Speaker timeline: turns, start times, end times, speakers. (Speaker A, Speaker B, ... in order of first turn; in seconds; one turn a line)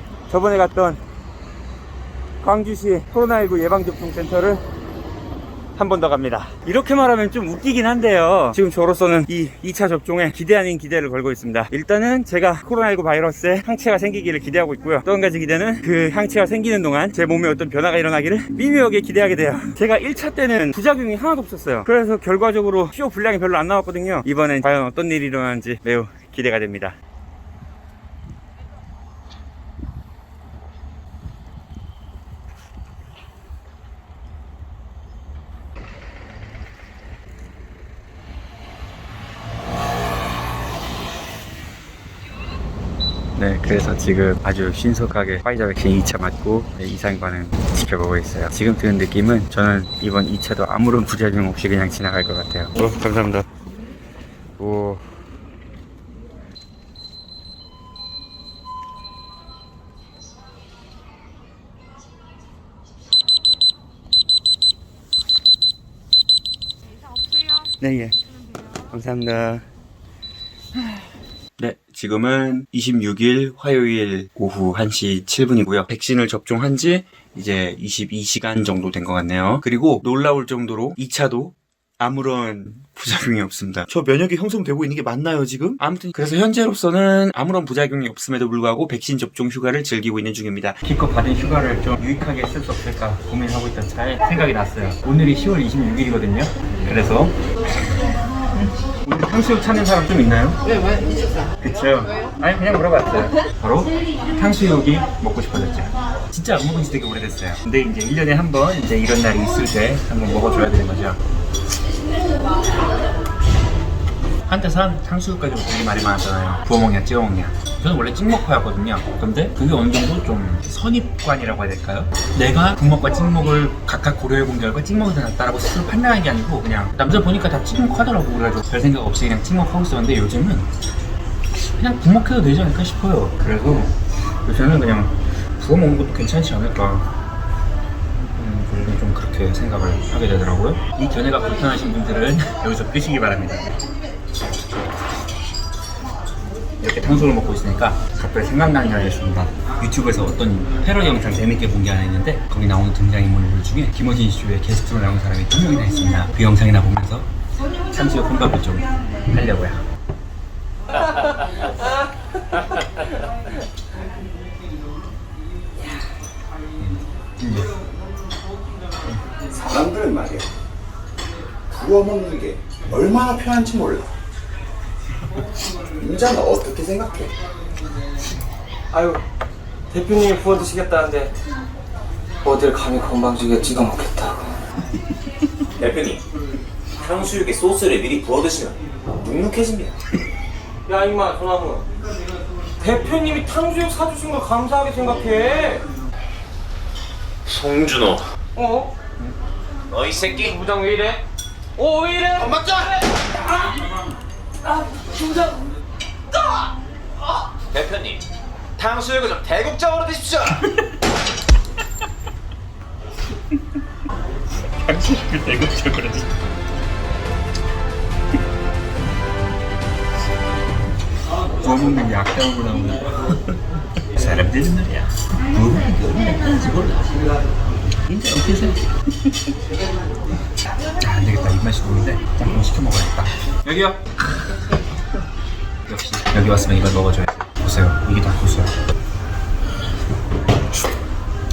Speaker A: 0.3-1.0
Speaker A: 2.4-4.6
Speaker A: 5.8-26.9
Speaker A: 43.3-53.5
Speaker A: 54.6-55.0
Speaker A: 67.8-68.1
Speaker A: 68.9-69.6
Speaker A: 71.6-98.0
Speaker A: 99.0-100.6
Speaker A: 101.6-111.2
Speaker A: 114.5-130.7
Speaker A: 131.6-133.9
Speaker A: 134.4-137.1
Speaker A: 138.3-143.7
Speaker A: 146.8-157.3
Speaker A: 157.9-159.8
Speaker A: 166.8-167.8
Speaker B: 169.5-170.5
Speaker B: 171.7-174.1
Speaker B: 175.9-177.4
Speaker C: 178.9-179.2
Speaker C: 179.9-181.3
Speaker C: 182.4-184.5
Speaker D: 185.8-186.2
Speaker D: 186.9-189.9
Speaker C: 190.8-191.8
Speaker C: 192.8-195.8
Speaker D: 197.5-198.2
Speaker C: 198.5-198.9
Speaker D: 199.9-200.6
Speaker C: 200.4-201.2
Speaker C: 201.8-202.8
Speaker C: 205.0-205.5
Speaker D: 207.7-208.2
Speaker D: 208.8-210.6
Speaker A: 214.7-216.3
Speaker A: 221.6-223.6
Speaker A: 224.2-227.0
Speaker A: 228.1-228.8
Speaker A: 231.0-234.8
Speaker A: 235.9-238.7